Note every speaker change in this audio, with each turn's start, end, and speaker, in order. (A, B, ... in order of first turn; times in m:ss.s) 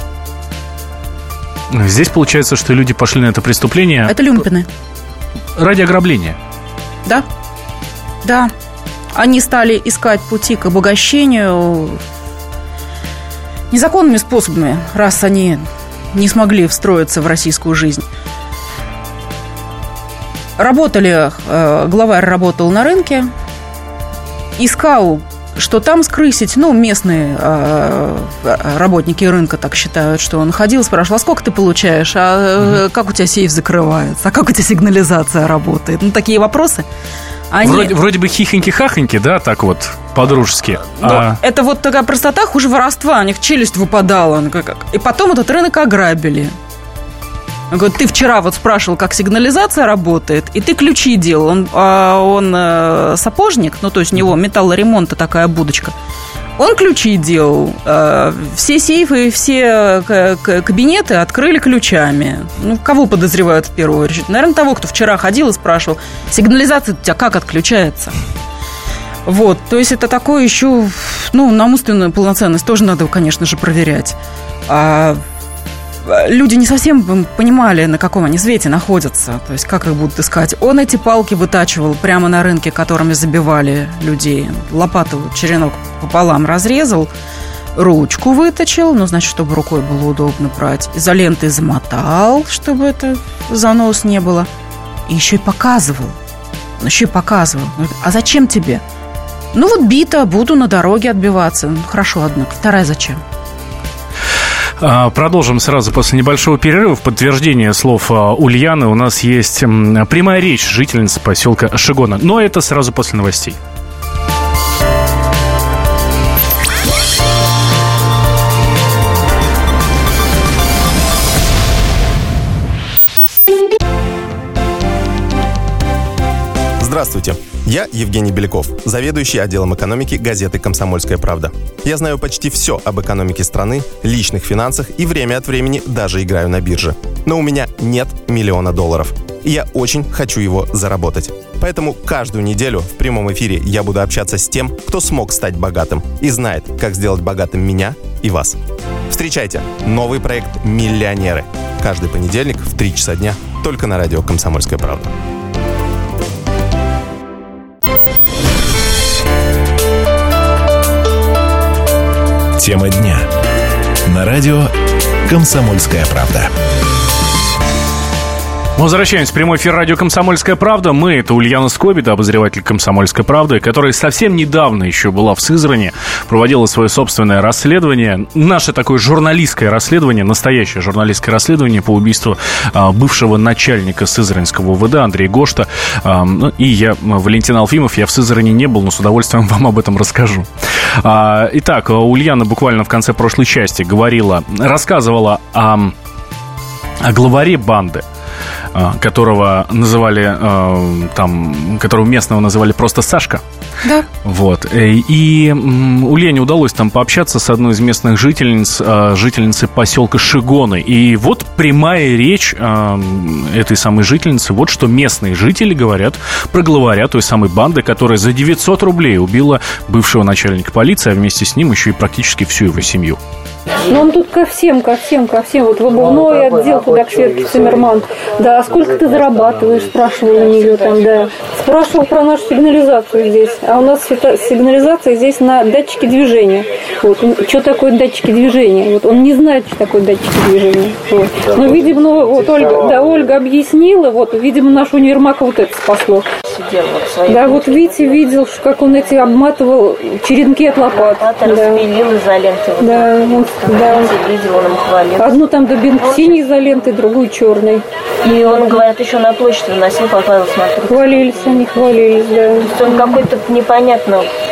0:01.7-0:04.1 A
0:04.1-0:04.7 B
0:05.6-0:06.4 A
0:08.2-0:08.5 B
0:09.1-0:12.0 B
0:13.7-0:18.0 B
0:20.6-0:23.3 B
0:24.6-0:36.8 B
0:37.5-0:37.9 B
0:37.6-0:41.4 A
0:40.9-0:46.5 B
0:47.7-0:55.9 B
0:56.6-1:08.1 B
1:09.2-1:14.2 B
1:14.7-1:15.2 B
1:16.0-1:27.1 B
1:27.7-1:34.5 B
1:35.1-1:36.2 B
1:36.8-1:38.8 B
1:39.5-1:43.2 B
1:44.8-1:53.6 A
2:06.8-2:28.6 C
2:29.1-2:35.1 C
2:42.6-2:43.3 D
2:44.0-2:44.7 D
2:45.2-2:46.5 D
2:48.8-3:15.9 A
3:17.0-3:18.0 A
3:18.7-3:23.4 A
3:24.2-3:43.2 A
3:43.8-4:06.2 E
4:06.5-4:08.2 F
4:07.3-4:11.9 E
4:10.9-4:15.4 F
4:12.8-4:14.1 E
4:15.2-4:18.8 E
4:16.0-4:16.4 F
4:18.2-4:21.7 F
4:20.9-4:23.2 E
4:22.6-4:24.3 F